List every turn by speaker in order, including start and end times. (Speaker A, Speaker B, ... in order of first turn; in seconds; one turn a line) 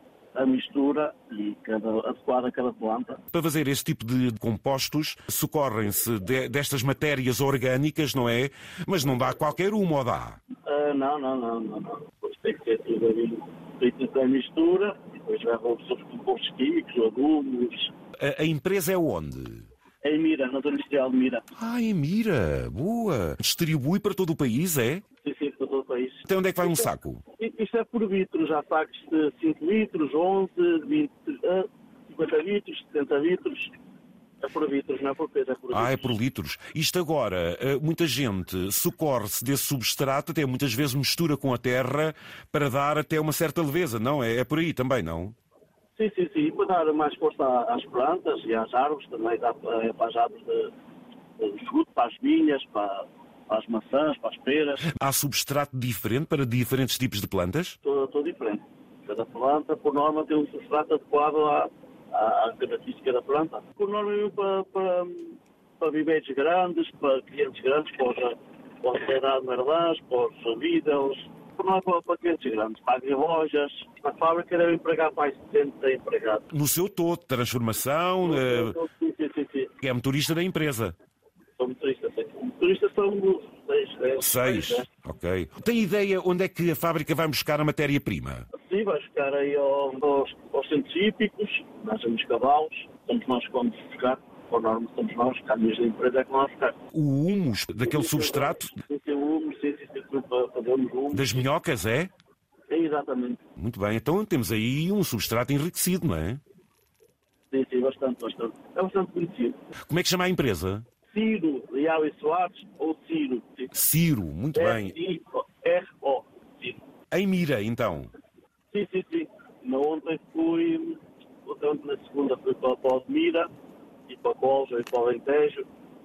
Speaker A: 0.3-3.2
Speaker B: 3.3-10.4
Speaker A: 10.7-17.9
Speaker B: 18.2-19.7
Speaker A: 20.0-21.5
Speaker B: 21.5-25.0
Speaker A: 25.2-33.7
Speaker B: 26.3-27.2
Speaker A: 34.4-36.1
Speaker B: 35.7-45.3
Speaker A: 46.0-50.7
Speaker A: 51.4-54.8
Speaker B: 54.9-57.8
Speaker A: 57.8-76.5
Speaker B: 76.5-78.8
Speaker A: 78.2-79.7
Speaker B: 79.8-81.0
Speaker A: 81.6-84.9
Speaker B: 84.2-88.5
Speaker A: 88.6-96.8
Speaker B: 96.9-98.8
Speaker A: 97.8-101.5
Speaker B: 101.1-102.1
Speaker A: 102.7-103.4
Speaker B: 103.6-106.4
Speaker A: 107.5-109.6
Speaker B: 109.9-110.8
Speaker A: 111.1-113.7
Speaker B: 113.7-115.0
Speaker A: 114.5-116.8
Speaker B: 117.1-118.1
Speaker A: 118.7-123.5
Speaker A: 124.1-125.7